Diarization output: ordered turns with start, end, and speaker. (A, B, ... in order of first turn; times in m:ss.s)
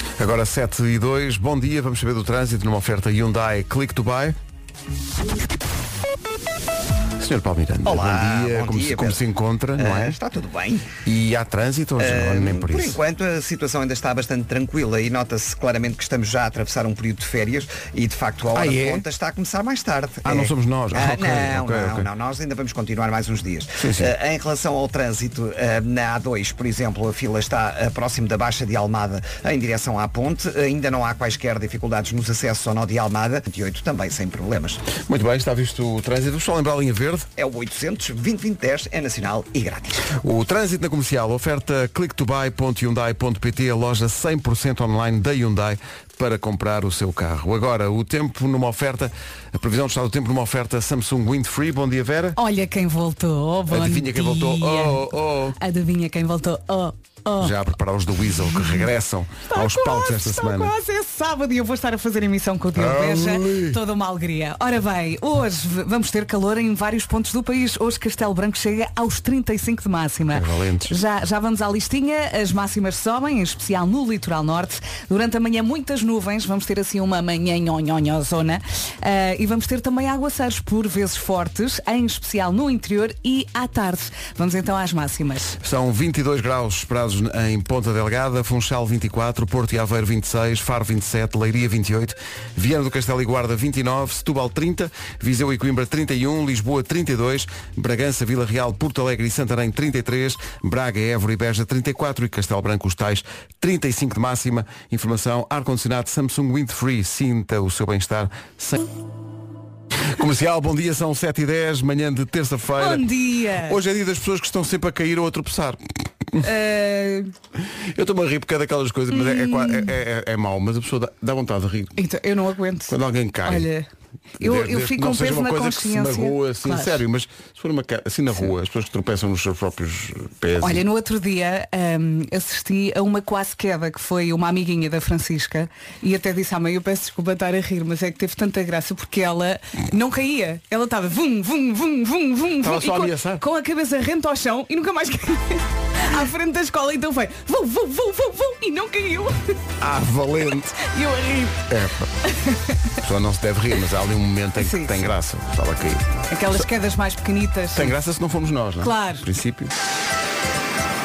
0:00.2-0:04.4 A
0:07.2-0:10.2 A
0:07.8-0:09.2 B
0:09.8-0:10.9 B
0:11.0-0:13.0 A
0:12.0-0:34.8 B
0:18.5-0:19.0 A
0:20.2-0:22.1 A
0:23.8-0:24.1 A
0:34.9-0:37.3 A
0:37.4-0:40.1 B
0:40.1-0:52.4 A
0:52.4-0:57.5 C
0:53.7-0:55.6 A
0:57.4-1:00.7 A
0:58.5-0:58.9 C
0:59.5-1:25.6 C
1:02.7-1:03.8 A
1:10.3-1:10.9 A
1:25.6-1:48.9 A
1:50.1-1:53.0 A
1:52.8-1:53.8 C
1:53.6-1:56.4 A
1:56.4-1:57.3 C
1:57.9-2:02.0 A
1:59.1-1:59.9 C
2:02.0-2:03.8 C
2:02.9-2:03.7 A
2:04.4-2:07.0 C
2:04.4-2:10.8 A
2:10.6-2:29.6 C
2:22.6-2:23.4 A
2:29.8-2:30.8 A
2:30.8-2:31.7 C
2:31.7-2:32.1 A
2:32.2-2:32.8 C
2:33.0-2:36.7 A
2:34.6-2:35.1 C
2:36.3-2:37.9 C
2:37.7-2:39.7 A
2:38.8-2:39.2 C